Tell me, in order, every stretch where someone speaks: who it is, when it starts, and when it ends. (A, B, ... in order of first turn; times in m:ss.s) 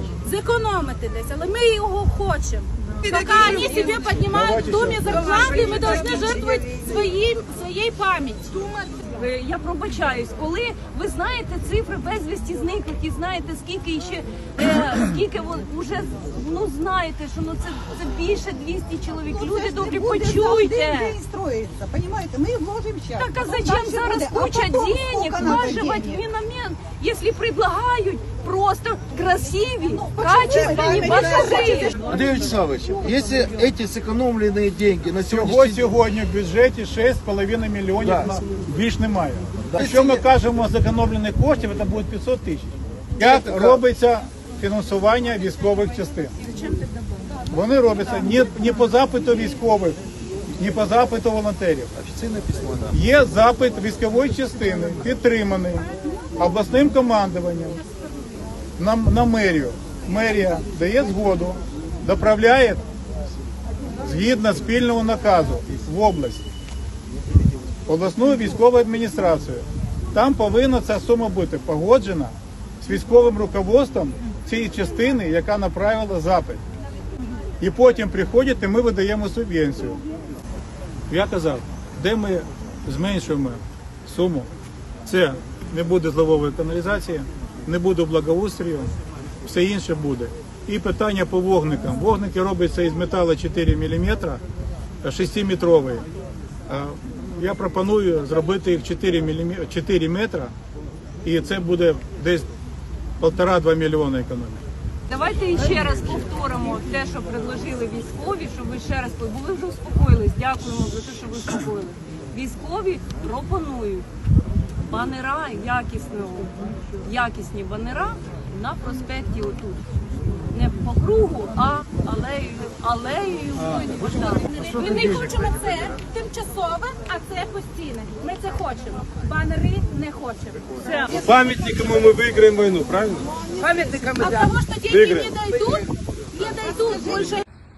0:00.2-0:08.6 A
0:03.0-0:04.0 B
0:04.2-0:05.6 C
0:05.1-0:06.8 B
0:09.1-0:21.2 D
0:19.5-0:26.1 E
0:23.1-0:32.0 D
0:30.0-0:31.9 E
0:32.0-0:35.9 F
0:35.3-0:46.3 C
0:38.0-0:38.4 F
0:39.6-0:40.2 F
0:43.2-0:43.8 F
0:47.5-0:50.0 C
0:50.6-0:51.9 C
0:51.9-0:53.0 F
0:52.9-0:55.9 C
0:56.4-0:57.8 C
0:58.8-1:02.8 C
1:04.0-1:06.4 C
1:07.9-1:16.6 C
1:17.6-1:20.0 C
1:21.1-1:24.5 C
1:25.0-1:28.9 C
1:29.4-1:34.4 C
1:35.0-1:36.1 C
1:36.7-1:40.5 C
1:41.2-1:42.5 C
1:43.2-1:44.6 C
1:45.1-1:54.0 D
1:54.9-1:59.8 D
2:00.5-2:04.4 D
2:04.5-2:11.0 A
2:11.1-2:13.3 G
2:13.6-2:14.5 B
2:14.2-2:17.4 A
2:14.9-2:15.4 G